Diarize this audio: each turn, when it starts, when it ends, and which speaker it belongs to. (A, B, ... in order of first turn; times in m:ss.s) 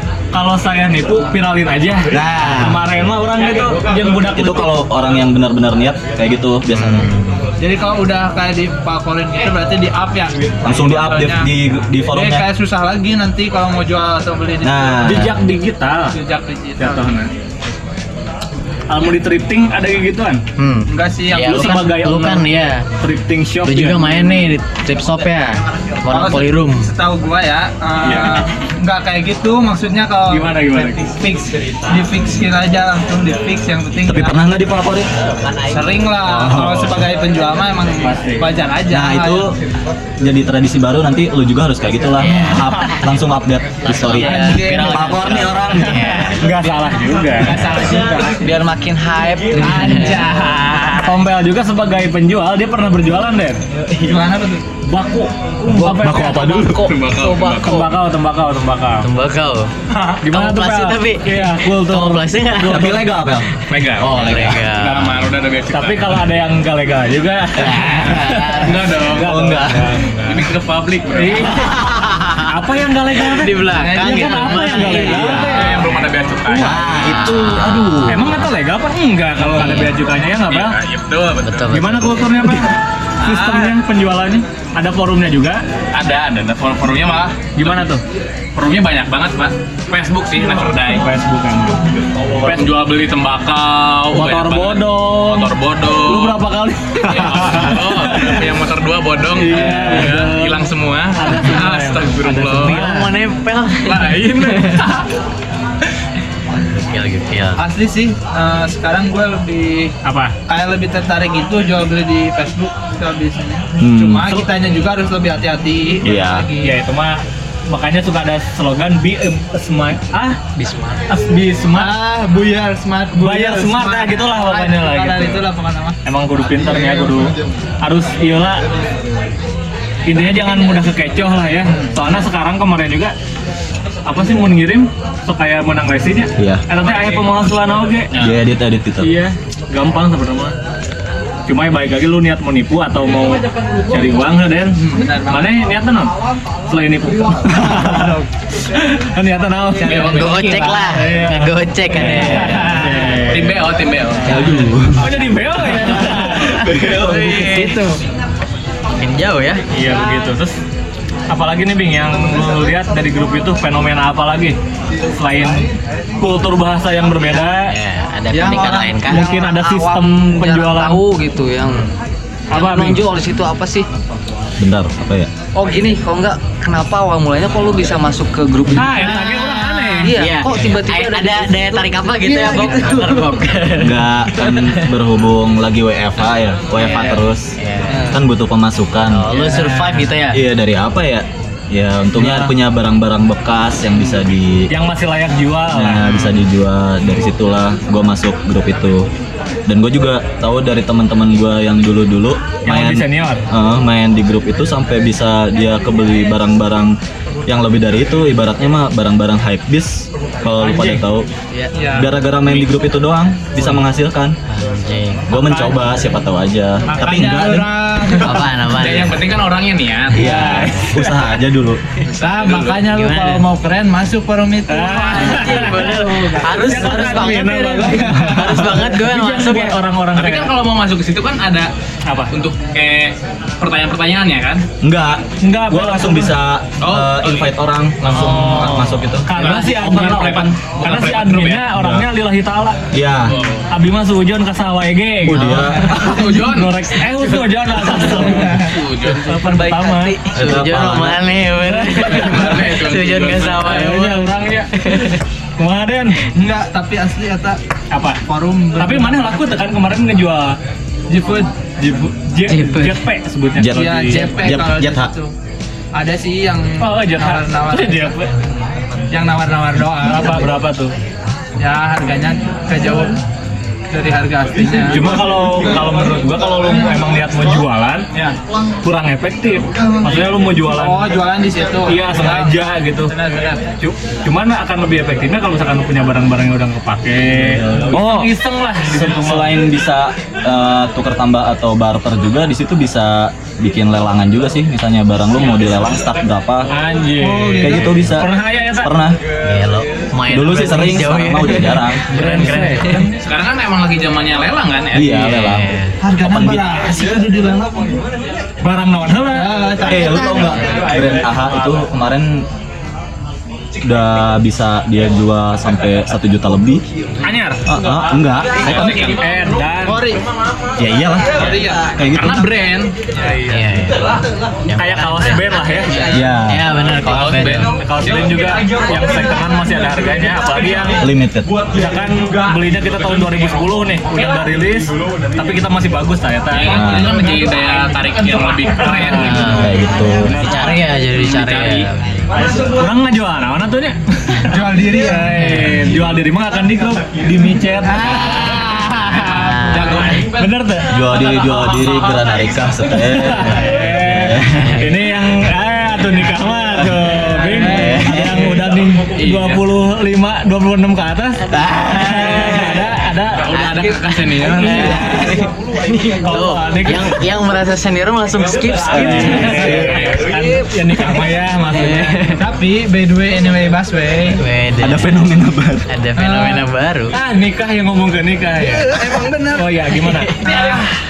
0:00.3-0:04.8 A
0:02.1-0:02.8 B
0:04.3-0:07.1 B
0:06.7-0:07.5 C
0:07.6-0:11.5 D
0:10.6-0:12.4 B
0:12.1-0:15.1 D
0:14.6-0:15.4 B
0:15.0-0:16.2 A
0:16.1-0:17.2 D
0:16.8-0:17.3 A
0:18.9-0:20.4 A
0:20.6-0:22.8 C
0:20.9-0:22.0 D
0:21.4-0:22.4 A
0:23.0-0:24.4 A
0:23.6-0:26.9 C
0:26.1-0:34.4 D
0:28.0-0:28.4 A
0:30.3-0:31.0 A
0:34.0-0:35.1 B
0:35.6-0:39.5 D
0:36.2-0:37.0 B
0:38.0-0:38.5 A
0:38.9-0:39.5 B
0:40.2-0:46.3 B
0:42.2-0:42.9 C
0:43.8-0:46.4 C
0:44.1-0:45.4 D
0:46.3-0:48.4 A
0:47.4-0:48.3 D
0:47.7-0:50.7 E
0:49.6-0:50.2 C
0:49.6-0:50.9 D
0:49.8-0:50.1 A
0:50.8-0:53.6 A
0:53.9-0:54.6 D
0:54.9-0:59.1 A
0:55.7-0:56.9 B
0:56.7-0:57.9 F
0:59.0-0:59.7 C
0:59.9-1:00.2 F
1:00.2-1:03.0 A
1:00.2-1:03.0 C
1:02.7-1:03.5 B
1:03.7-1:06.2 F
1:04.0-1:05.3 C
1:04.0-1:04.5 B
1:05.7-1:10.5 A
1:07.6-1:08.1 B
1:07.6-1:08.7 C
1:08.5-1:09.3 F
1:09.1-1:10.0 B
1:10.2-1:11.6 F
1:11.1-1:11.8 A
1:11.8-1:12.5 C
1:12.4-1:16.8 A
1:13.2-1:15.5 C
1:13.7-1:15.8 D
1:15.0-1:15.6 B
1:15.5-1:16.8 F
1:16.5-1:18.4 B
1:16.6-1:18.3 C
1:18.0-1:20.8 A
1:19.4-1:20.0 C
1:20.4-1:21.7 F
1:21.4-1:22.3 C
1:21.7-1:25.6 A
1:23.3-1:23.7 F
1:25.9-1:27.9 F
1:27.6-1:28.0 A
1:28.5-1:31.1 F
1:30.7-1:31.8 A
1:32.4-1:36.4 F
1:32.4-1:32.7 A
1:34.1-1:38.4 A
1:37.1-1:42.8 F
1:39.3-1:43.1 A
1:42.6-1:44.9 C
1:43.8-1:45.0 F
1:46.8-1:47.6 C
1:47.6-1:49.9 D
1:50.0-1:50.3 A
1:50.5-1:56.7 D
1:53.8-1:54.4 B
1:56.0-1:56.4 B
1:56.6-2:00.4 A
2:01.1-2:01.9 A
2:01.7-2:06.0 D
2:03.2-2:05.4 A
2:06.0-2:08.6 A
2:10.1-2:13.1 A
2:14.0-2:18.1 A
2:16.4-2:16.6 B
2:18.1-2:18.4 F
2:18.2-2:19.2 B
2:19.0-2:20.5 A
2:21.5-2:26.1 A
2:24.8-2:25.6 D
2:26.7-2:28.0 A
2:27.5-2:28.2 B
2:27.7-2:28.1 D
2:28.7-2:33.6 A
2:29.8-2:30.7 F
2:30.0-2:33.1 C
2:33.1-2:34.4 F
2:34.2-2:35.1 B
2:34.3-2:36.7 A
2:35.7-2:37.7 B
2:36.8-2:37.9 C
2:37.3-2:37.9 E
2:39.0-2:39.6 C
2:39.7-2:40.6 A
2:41.3-2:44.6 A
2:45.1-2:47.7 A
2:47.6-2:49.3 C
2:48.3-2:51.9 E
2:49.1-2:51.0 A
2:52.5-2:53.0 A
2:52.5-2:53.9 E
2:54.6-2:55.3 B
2:55.5-3:03.4 E
2:58.7-3:00.1 A
2:59.0-3:04.9 C
3:03.8-3:07.5 B
3:06.8-3:08.0 C
3:07.9-3:08.2 E
3:08.1-3:09.5 B
3:09.1-3:10.4 C
3:10.3-3:14.7 B
3:12.2-3:12.5 A
3:14.7-3:16.1 A
3:15.7-3:19.1 B
3:19.7-3:26.9 B
3:22.6-3:23.4 A
3:27.4-3:31.2 B
3:30.6-3:31.0 A
3:31.7-3:32.1 D
3:31.9-3:34.3 B
3:34.5-3:35.6 C
3:35.3-3:37.7 B
3:36.9-3:38.5 D
3:38.2-3:39.2 C
3:38.7-3:40.5 F
3:40.1-3:41.8 B
3:40.2-3:41.2 A
3:42.1-3:42.8 F
3:42.2-3:46.0 D
3:42.9-3:43.4 C
3:44.7-3:50.5 A
3:45.0-3:49.8 C
3:50.1-3:51.7 F
3:52.1-3:52.3 A
3:52.3-3:54.6 F
3:54.8-4:00.5 B
3:55.4-3:56.4 A
3:56.8-3:57.5 F
3:58.0-4:01.7 F
3:58.1-4:02.9 A
4:01.7-4:02.1 B
4:02.9-4:03.3 B
4:03.3-4:03.7 F
4:03.7-4:10.2 A
4:05.2-4:06.1 B
4:05.8-4:07.3 F
4:08.1-4:09.4 F
4:09.4-4:10.3 E
4:10.2-4:15.2 C
4:10.3-4:11.3 B
4:11.6-4:12.6 A
4:11.9-4:13.8 F
4:13.6-4:16.2 A
4:16.3-4:17.6 D
4:17.9-4:18.2 A
4:18.2-4:19.6 D
4:18.8-4:20.6 A
4:21.1-4:21.5 D
4:21.8-4:24.4 A
4:22.4-4:23.0 C
4:23.6-4:25.1 B
4:23.7-4:25.3 D
4:25.9-4:28.2 D
4:26.8-4:28.3 A
4:29.1-4:30.5 D
4:30.0-4:30.9 A
4:31.6-4:33.2 D
4:33.9-4:35.2 D
4:34.7-4:38.1 A
4:38.8-4:41.2 A
4:40.6-4:43.7 D
4:41.8-4:43.1 A
4:43.8-4:49.6 A
4:47.3-4:48.3 B
4:48.9-4:56.7 B
4:56.7-4:59.0 A
4:57.2-4:58.0 D
4:57.6-4:59.2 B
4:59.4-5:03.1 C
5:00.3-5:02.0 B
5:02.1-5:03.1 A
5:03.1-5:05.3 F
5:04.9-5:06.8 B
5:05.0-5:05.9 C
5:06.0-5:08.0 D
5:08.6-5:09.8 A
5:09.3-5:11.0 D
5:09.8-5:12.4 B
5:13.8-5:16.8 B
5:17.2-5:17.7 A
5:17.6-5:19.1 B
5:18.6-5:19.3 F
5:18.6-5:20.1 A
5:19.8-5:20.2 D
5:20.8-5:22.5 B
5:21.3-5:21.9 D
5:22.0-5:23.4 F
5:23.5-5:27.7 C
5:24.8-5:26.0 A
5:26.1-5:26.7 B
5:26.9-5:28.4 F
5:27.8-5:31.0 A
5:31.0-5:31.6 B
5:31.6-5:36.8 A
5:36.5-5:39.7 F
5:36.7-5:37.2 B
5:38.7-5:40.8 A
5:39.2-5:39.7 C
5:39.6-5:40.3 B
5:40.3-5:42.3 C
5:41.1-5:41.9 F
5:42.3-5:48.7 A
5:44.5-5:45.6 D
5:45.3-5:45.8 C
5:47.9-5:49.1 D
5:48.9-5:50.1 C
5:49.1-5:50.6 F
5:50.2-5:51.0 A
5:50.9-5:54.8 B
5:51.8-5:52.2 F
5:52.9-6:03.5 A
5:57.3-5:58.1 D
5:57.6-5:58.6 B
5:59.1-5:59.6 F
6:01.5-6:02.9 B
6:03.3-6:05.2 F
6:03.6-6:09.8 C
6:04.4-6:07.2 A
6:08.4-6:12.3 A
6:08.9-6:09.9 B
6:09.6-6:10.6 D
6:09.6-6:10.3 F
6:11.7-6:12.4 C
6:12.3-6:14.4 D
6:14.3-6:15.2 C
6:14.8-6:15.9 B
6:15.9-6:17.1 C
6:16.2-6:16.6 D
6:17.1-6:20.6 A
6:18.6-6:19.7 D
6:20.2-6:20.5 C
6:20.3-6:20.9 D